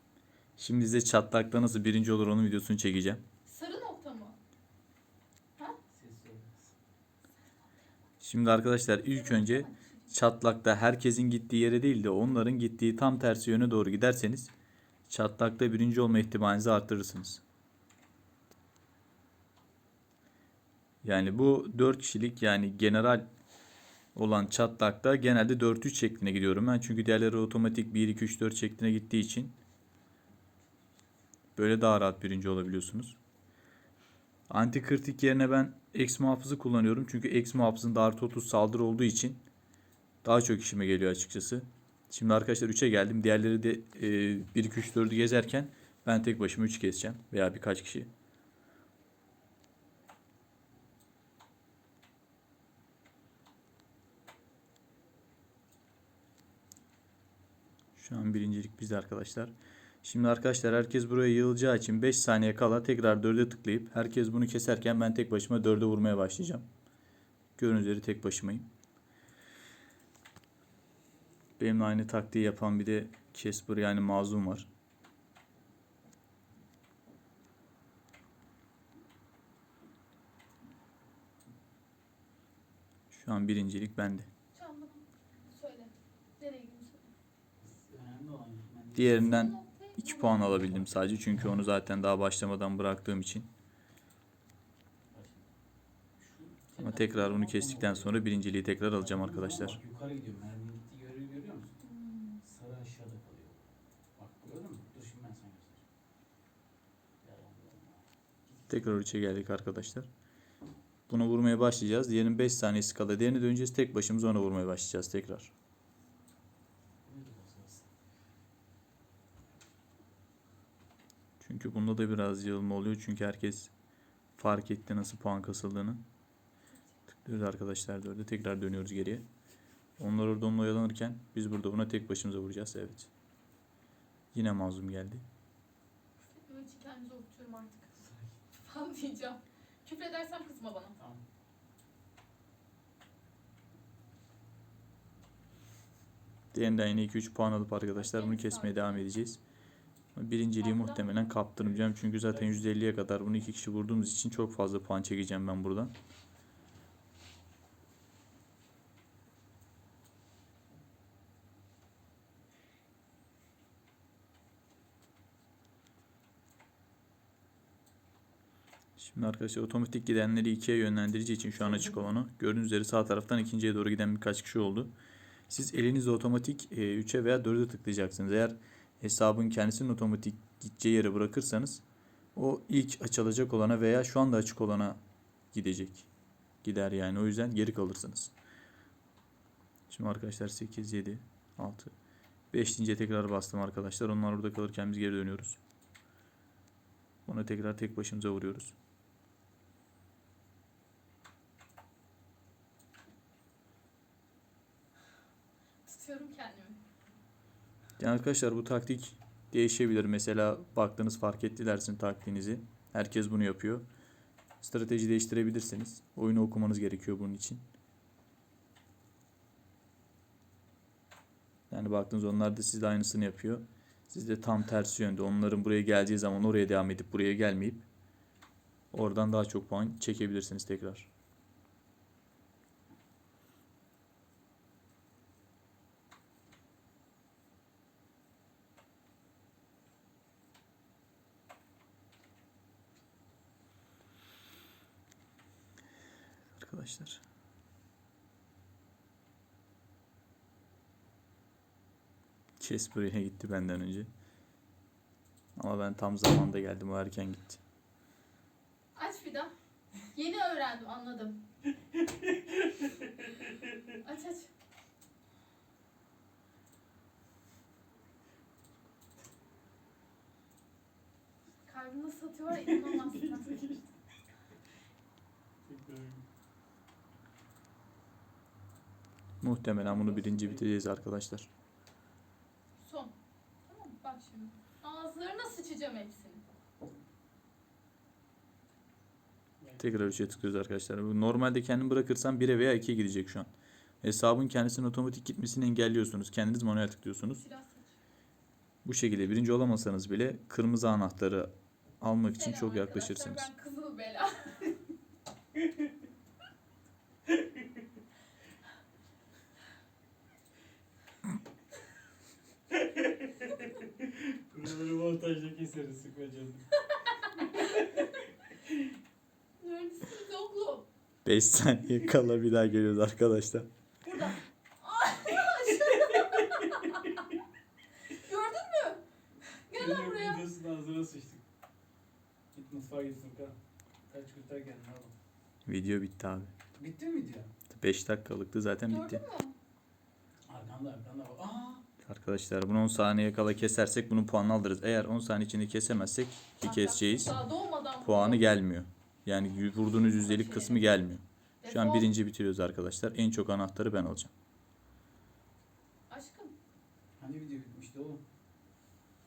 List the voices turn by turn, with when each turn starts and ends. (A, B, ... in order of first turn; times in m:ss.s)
0:00.6-0:03.2 A
0:03.5-0:04.4 B
0:05.9-0:06.7 C
0:08.2-0:14.5 A
0:09.1-0:10.1 B
0:15.1-0:17.4 A
0:21.0-0:23.2 A
0:24.2-0:29.6 A
0:31.6-0:33.2 A
0:34.5-0:39.4 A
0:40.2-0:48.1 A
0:58.0-0:59.5 A
1:00.0-1:06.7 A
1:07.6-1:08.7 A
1:11.6-1:14.7 A
1:23.1-1:24.3 A
1:24.5-1:27.1 B
1:27.6-1:29.4 C
1:29.0-1:33.5 A
1:29.2-1:30.6 B
1:30.6-1:30.9 C
1:35.1-1:35.5 C
1:36.2-1:41.8 C
1:36.8-1:39.8 A
1:41.8-1:42.4 B
1:42.4-1:43.6 C
1:44.2-1:45.8 C
1:47.2-1:48.8 C
1:48.7-1:50.1 A
1:51.1-1:55.5 A
1:57.0-1:57.9 C
2:01.4-2:03.7 A
2:04.4-2:06.0 A
2:07.2-2:09.2 A
2:10.0-2:13.1 A
2:14.3-2:15.2 A
2:16.2-2:21.0 B
2:21.0-2:21.2 C
2:26.5-2:29.4 A
2:27.9-2:29.1 B
2:30.2-2:35.9 A
2:30.6-2:31.3 B
2:31.6-2:32.6 C
2:49.0-2:54.9 A
2:51.7-2:52.0 C
2:55.5-3:01.8 A
3:02.4-3:05.0 A
3:05.5-3:06.1 A
3:06.6-3:08.3 A
3:09.9-3:11.9 A
3:12.5-3:15.6 A
3:17.3-3:18.8 A
3:25.8-3:26.8 B
3:28.0-3:33.9 A
3:34.6-3:37.6 A
3:41.7-3:47.9 A
3:48.9-3:51.1 A
4:06.6-4:07.2 A
4:12.6-4:14.1 A
4:15.6-4:17.6 A
4:19.0-4:19.5 B
4:20.1-4:21.4 B
4:24.0-4:24.5 B
4:31.6-4:33.7 B
4:32.5-4:33.9 C
4:35.6-4:36.2 C
4:39.4-4:41.5 A
4:39.8-4:40.7 C
4:42.8-4:43.1 B
4:43.7-4:46.4 B
4:49.6-4:50.6 C
4:49.8-4:53.5 A
4:54.0-4:57.4 A
4:57.4-4:58.0 B
4:58.8-5:03.5 A
5:02.3-5:04.8 B
5:13.0-5:16.7 C
5:16.9-5:17.8 B
5:17.8-5:18.0 C
5:19.6-5:20.9 B
5:21.2-5:23.7 A
5:24.0-5:27.3 B
5:28.1-5:29.0 B
5:29.7-5:30.5 B
5:29.7-5:31.4 C
5:32.5-5:33.6 C
5:34.1-5:35.1 C
5:35.7-5:36.5 A
5:36.8-5:37.5 C
5:37.7-5:39.2 A
5:38.9-5:39.6 B
5:40.5-5:41.8 C
5:42.0-5:47.4 A
5:46.6-5:48.5 B
5:48.0-5:54.3 A
5:50.0-5:50.9 B
5:51.6-5:52.1 B
5:56.1-5:56.6 B
5:57.2-5:58.2 C